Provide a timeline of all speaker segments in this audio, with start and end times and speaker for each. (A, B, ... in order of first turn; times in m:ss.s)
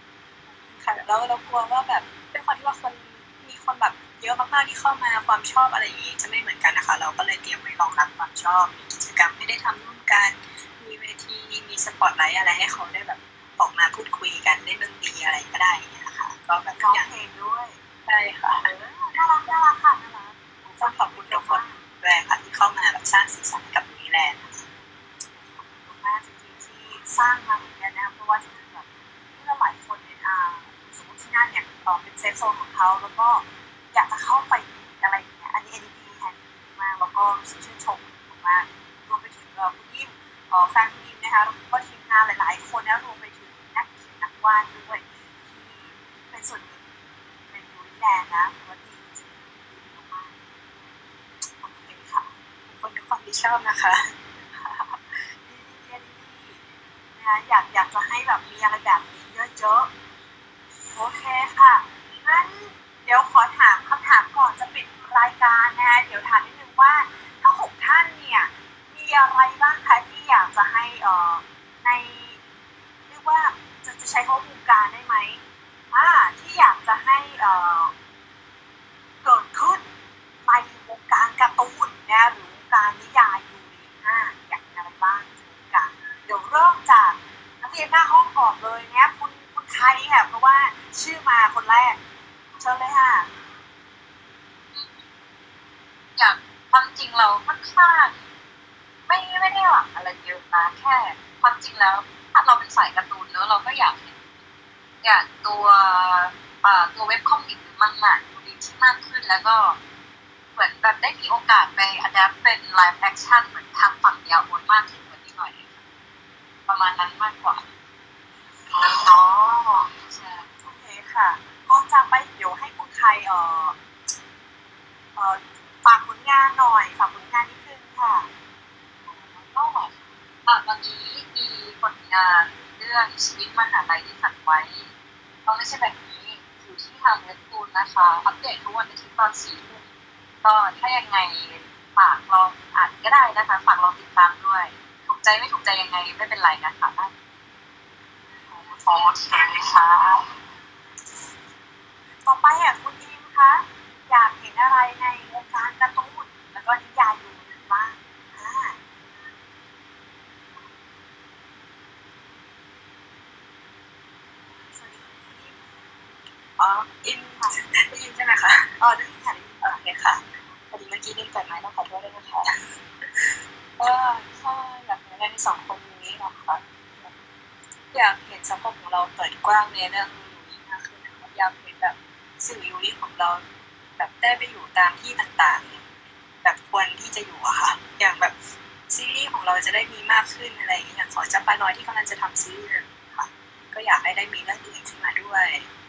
0:00.7-0:17.1 A
0:16.7-0:17.8 B
0:18.1-0:18.7 A
0:18.6-0:21.8 B
0:20.6-0:24.7 A
0:25.4-0:46.9 B
0:47.5-0:50.9 B
0:51.6-0:52.3 B
0:52.6-0:54.1 A
0:54.4-0:59.9 B
1:00.9-1:12.4 B
1:13.1-1:17.9 B
1:19.2-1:19.9 B
1:20.4-1:32.0 B
1:32.6-1:33.3 B
1:34.7-1:35.0 C
1:36.2-1:38.2 C
1:39.1-1:44.5 C
1:45.0-1:49.8 C
1:50.5-1:55.8 C
1:56.7-1:57.7 C
1:58.7-2:00.5 C
2:00.6-2:03.8 B
2:05.2-2:08.3 B
2:09.0-2:14.9 C
2:15.4-2:19.9 C
2:20.4-2:27.1 C
2:28.5-2:30.3 C
2:32.2-2:38.8 B
2:44.4-2:46.2 B
2:46.6-2:48.9 A
2:47.4-2:47.7 B
2:48.8-2:49.8 B
2:49.6-2:57.2 A
2:57.9-3:03.4 A
3:04.0-3:05.8 A
3:06.4-3:08.4 A
3:08.9-3:15.7 A